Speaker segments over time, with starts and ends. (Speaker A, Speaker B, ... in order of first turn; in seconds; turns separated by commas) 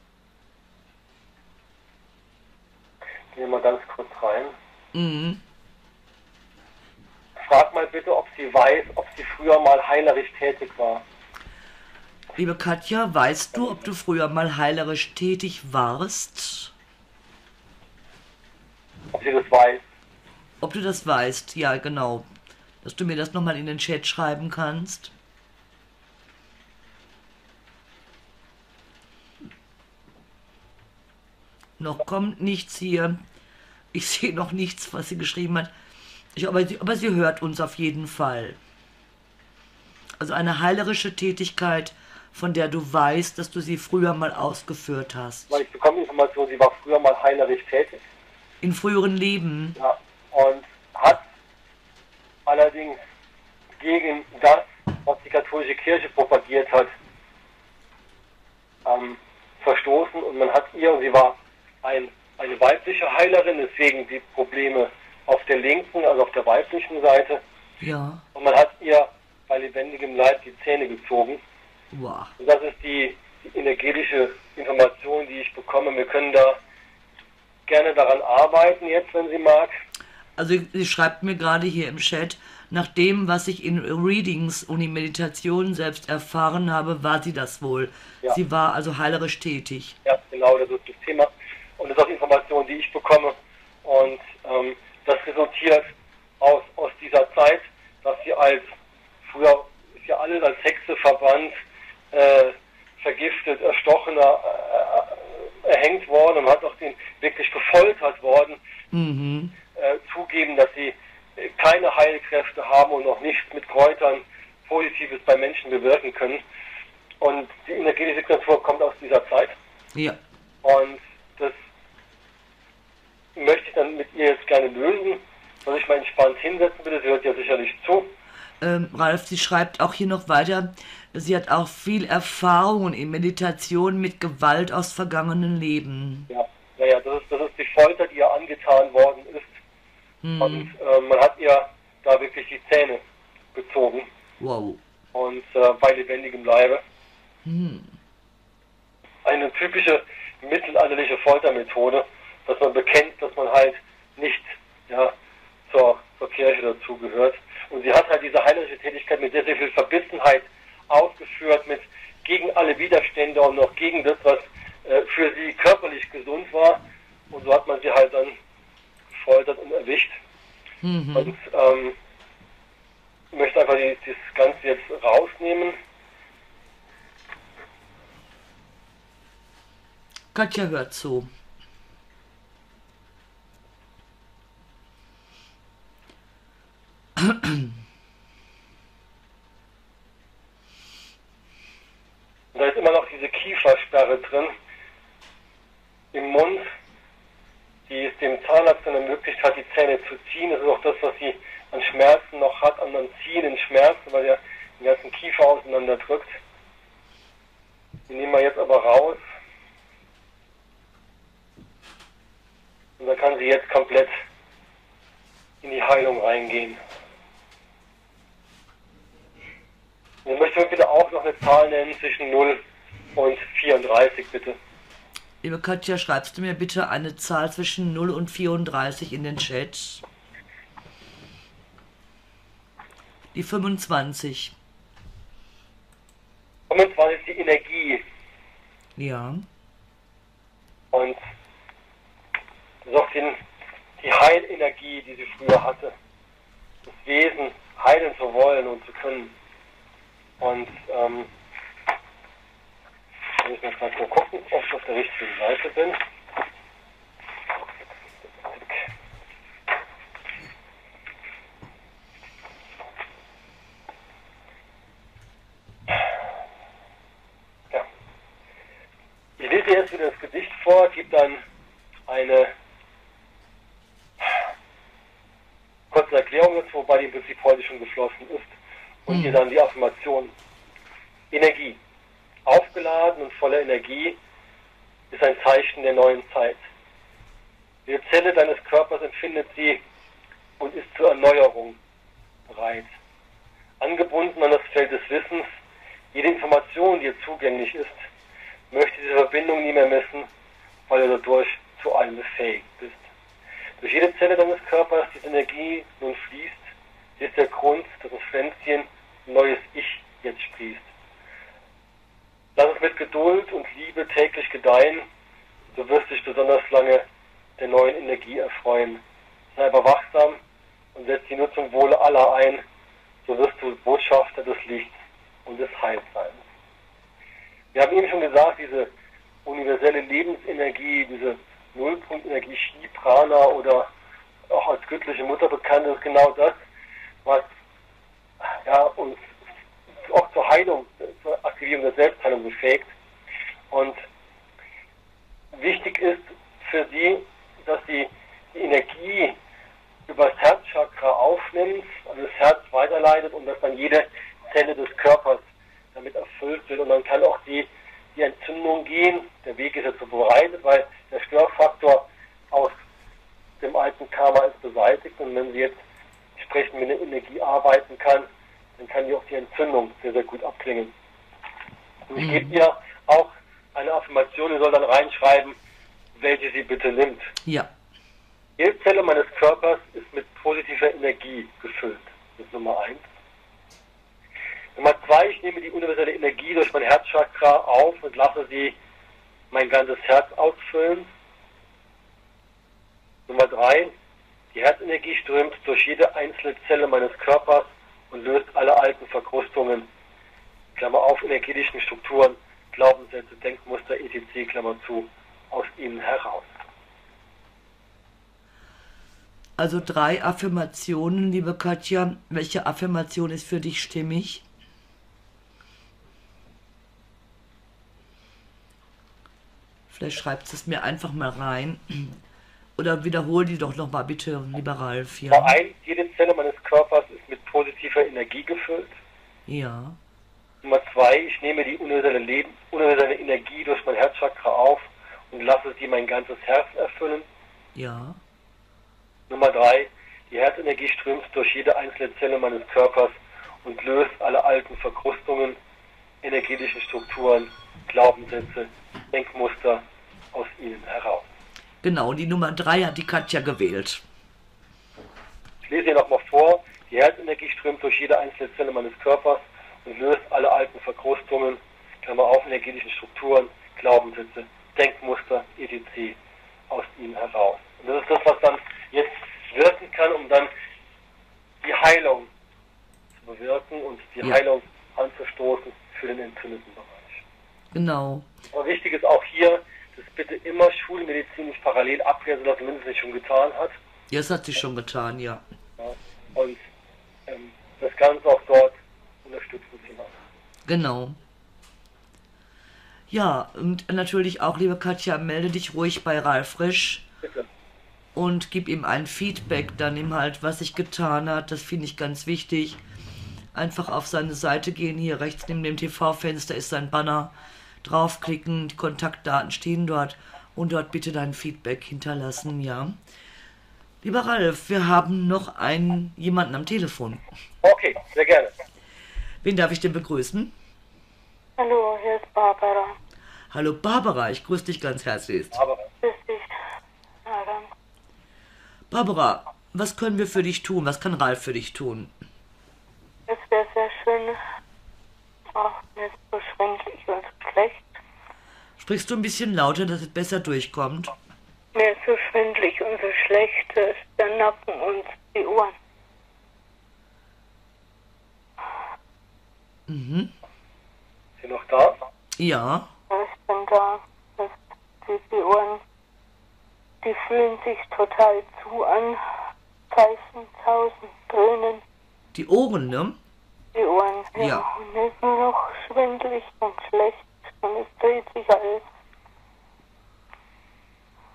Speaker A: 3.3-4.6, Speaker B: 4.9-5.4, Speaker A: 7.4-11.1, Speaker B: 12.4-16.7, Speaker A: 19.1-19.8, Speaker B: 20.6-22.3, Speaker B: 22.8-25.1, Speaker B: 31.8-33.2, Speaker B: 33.9-35.7, Speaker B: 36.4-38.6, Speaker B: 40.2-45.6, Speaker A: 45.5-48.0, Speaker B: 48.6-49.8, Speaker A: 49.8-51.2, Speaker A: 52.5-53.0, Speaker A: 53.8-56.9, Speaker A: 58.9-67.4, Speaker B: 67.8-68.2, Speaker A: 68.3-71.4, Speaker B: 71.9-72.3, Speaker A: 72.4-76.6, Speaker A: 77.7-79.8, Speaker B: 80.4-90.0, Speaker A: 90.0-101.6, Speaker A: 102.1-108.6, Speaker B: 108.9-109.5, Speaker A: 109.8-116.4, Speaker A: 117.2-119.6, Speaker B: 119.9-120.2, Speaker A: 120.6-121.6, Speaker A: 123.3-128.1, Speaker B: 128.6-136.3, Speaker A: 136.3-139.6, Speaker B: 140.2-140.7, Speaker A: 140.4-143.0, Speaker A: 143.5-144.1, Speaker B: 144.4-144.8, Speaker A: 145.1-146.8, Speaker B: 147.4-147.9, Speaker A: 149.2-155.1, Speaker A: 155.7-168.4, Speaker A: 169.1-170.2, Speaker B: 170.8-171.3, Speaker A: 171.2-172.0, Speaker A: 173.3-175.8, Speaker B: 180.3-181.3, Speaker B: 187.2-187.7, Speaker A: 192.5-194.5, Speaker A: 196.1-196.7, Speaker A: 197.9-206.4, Speaker A: 208.1-209.2, Speaker A: 213.0-214.1, Speaker A: 215.6-216.8, Speaker A: 220.2-222.6, Speaker A: 223.2-224.6, Speaker B: 225.4-230.0, Speaker B: 233.3-234.6, Speaker A: 236.7-238.0, Speaker B: 239.0-239.4, Speaker A: 240.9-241.2, Speaker A: 242.8-243.4, Speaker A: 244.0-245.9, Speaker A: 246.9-249.3, Speaker A: 250.4-251.3, Speaker A: 253.4-256.0, Speaker A: 269.4-271.4, Speaker A: 272.1-272.5, Speaker A: 275.9-278.5, Speaker A: 279.1-280.3, Speaker B: 279.1-279.4, Speaker A: 281.3-281.8, Speaker A: 282.5-284.2, Speaker A: 285.1-286.6, Speaker A: 287.9-289.8, Speaker A: 290.6-291.8, Speaker A: 292.5-292.9, Speaker A: 293.8-295.5, Speaker A: 296.1-298.0, Speaker A: 298.7-300.3, Speaker A: 300.9-303.0, Speaker A: 303.8-310.9, Speaker A: 312.6-315.1, Speaker A: 315.7-317.1, Speaker A: 317.6-319.0, Speaker A: 319.5-320.4, Speaker A: 320.9-322.6, Speaker A: 323.3-324.9, Speaker A: 325.5-326.4, Speaker A: 327.7-328.9, Speaker A: 329.4-333.9, Speaker A: 334.5-336.6, Speaker A: 338.6-339.2, Speaker A: 340.0-342.9, Speaker A: 343.7-344.0, Speaker A: 345.5-349.4, Speaker A: 350.1-355.4, Speaker A: 355.9-362.8, Speaker A: 363.6-365.8, Speaker A: 366.4-368.3, Speaker A: 368.8-370.9, Speaker A: 372.1-375.6, Speaker B: 372.2-372.6, Speaker A: 376.2-377.3, Speaker B: 377.4-377.7, Speaker A: 378.6-383.1, Speaker A: 384.8-388.8, Speaker A: 389.5-391.1, Speaker A: 393.3-393.9, Speaker A: 394.5-399.9, Speaker A: 400.8-406.5, Speaker B: 409.6-414.4, Speaker B: 419.9-422.2, Speaker B: 422.8-425.6, Speaker A: 425.3-428.9, Speaker B: 429.5-430.0, Speaker A: 430.6-437.3, Speaker B: 437.8-438.2, Speaker A: 439.3-445.6, Speaker A: 446.2-451.3, Speaker B: 451.8-454.0, Speaker A: 455.7-466.2, Speaker A: 466.7-470.5, Speaker A: 471.6-472.3, Speaker A: 473.2-477.2, Speaker B: 477.7-478.3, Speaker A: 478.5-483.8, Speaker B: 484.1-485.4, Speaker A: 485.8-486.6, Speaker A: 487.3-490.2, Speaker B: 490.7-491.2, Speaker B: 493.1-497.1, Speaker B: 498.1-502.8, Speaker B: 503.5-513.0, Speaker B: 514.0-517.2, Speaker A: 517.6-518.5, Speaker B: 519.4-520.5, Speaker C: 521.6-523.0, Speaker B: 523.5-525.6, Speaker A: 525.5-525.9, Speaker C: 526.0-526.5, Speaker C: 527.3-527.7, Speaker B: 528.9-532.1, Speaker C: 533.3-534.4, Speaker C: 535.5-537.9, Speaker B: 538.8-541.1, Speaker C: 541.8-545.8, Speaker B: 549.9-550.3, Speaker A: 551.4-552.0, Speaker B: 552.4-552.9, Speaker C: 553.1-555.8, Speaker C: 557.0-559.2, Speaker C: 559.9-561.8, Speaker B: 562.3-563.2, Speaker C: 563.8-568.8, Speaker B: 564.4-564.6